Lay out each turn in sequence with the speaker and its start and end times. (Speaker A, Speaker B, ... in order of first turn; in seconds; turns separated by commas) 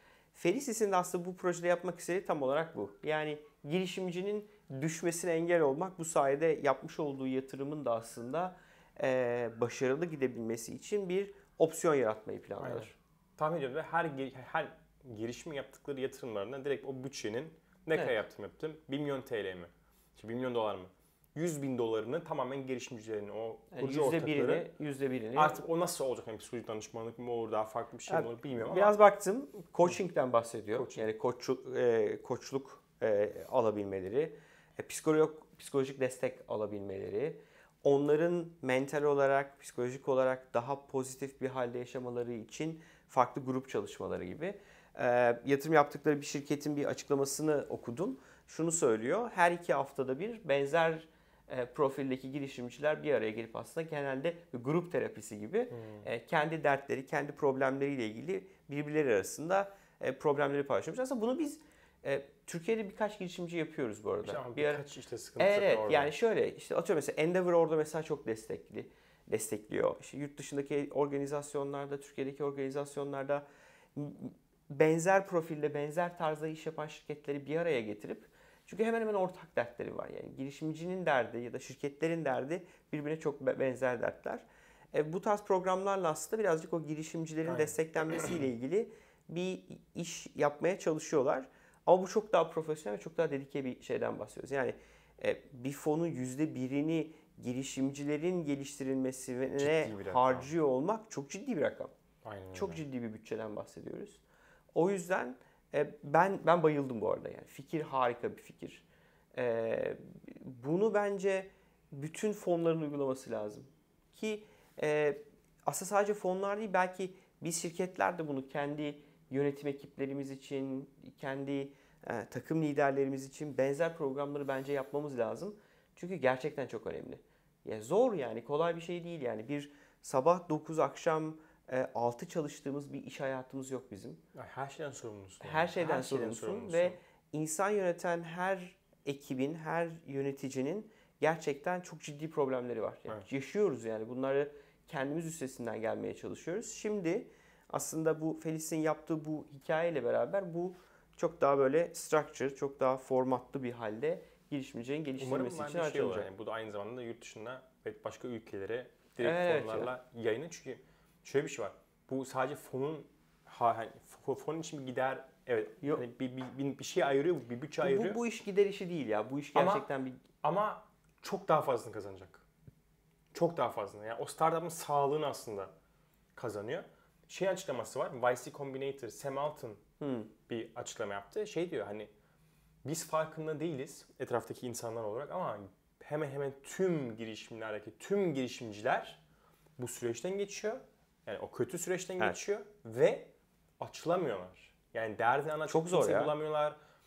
Speaker A: 0.3-12.9, Speaker B: 12.6-24.7, Speaker A: 23.7-25.6, Speaker B: 25.4-28.9, Speaker A: 28.1-64.8, Speaker B: 30.8-31.1, Speaker B: 55.7-56.1, Speaker B: 64.2-66.1, Speaker A: 65.4-101.9, Speaker B: 87.5-87.7, Speaker B: 99.6-100.5, Speaker B: 102.2-102.8, Speaker A: 102.5-104.2, Speaker A: 104.7-108.8, Speaker A: 109.3-134.2, Speaker B: 134.3-137.0, Speaker A: 135.4-156.3, Speaker B: 155.2-168.2, Speaker A: 159.2-159.9, Speaker A: 167.8-170.2, Speaker B: 169.5-169.9, Speaker B: 170.4-172.4, Speaker B: 173.3-175.7, Speaker B: 176.3-179.8, Speaker A: 180.0-180.3, Speaker B: 180.5-182.1, Speaker B: 182.8-189.2, Speaker B: 189.8-196.8, Speaker A: 195.7-196.3